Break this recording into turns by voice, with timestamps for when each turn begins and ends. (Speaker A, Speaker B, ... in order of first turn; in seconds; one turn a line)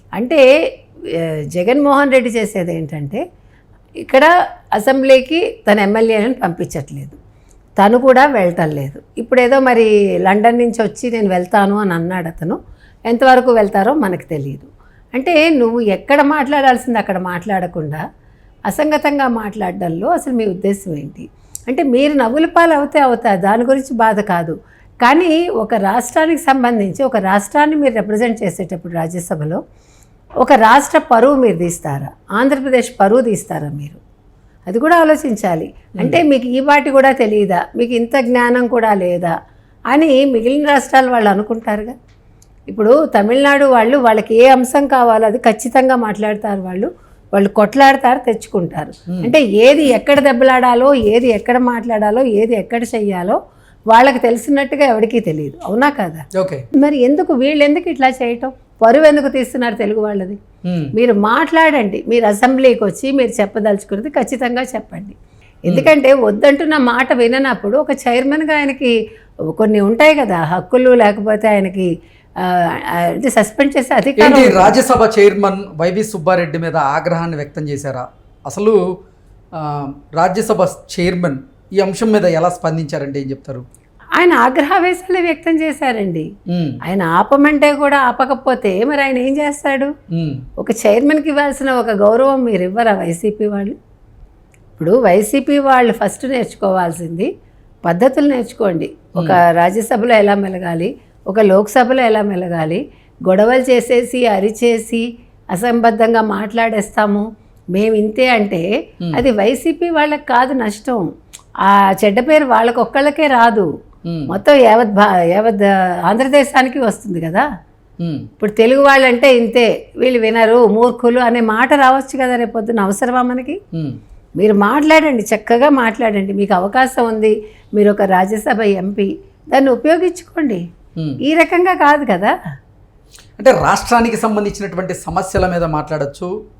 Speaker A: 0.2-0.4
Speaker A: 1.1-3.2
Speaker A: 4.0-7.2
Speaker A: 7.8-18.0
Speaker A: 18.7-29.6
Speaker A: 30.4-34.0
Speaker A: 34.7-39.3
Speaker A: 39.9-42.0
Speaker A: 42.7-53.4
Speaker A: 53.9-56.2
Speaker B: 56.3-56.6
Speaker A: 56.8-60.4
Speaker B: 60.7-60.9
Speaker A: 61.0-68.9
Speaker A: 69.5-71.9
Speaker A: 72.4-74.8
Speaker B: 74.2-78.8
Speaker B: 79.5-83.6
Speaker A: 84.2-86.3
Speaker B: 86.5-86.8
Speaker A: 86.8-89.9
Speaker B: 90.1-90.4
Speaker A: 90.6-93.8
Speaker A: 94.8-97.3
Speaker A: 97.8-111.0
Speaker A: 111.6-113.7
Speaker B: 114.0-114.4
Speaker A: 114.3-117.4
Speaker B: 118.0-118.2
Speaker A: 118.4-123.6
Speaker B: 123.7-124.0
Speaker A: 124.4-130.6
Speaker A: 131.2-132.3
Speaker B: 133.4-136.3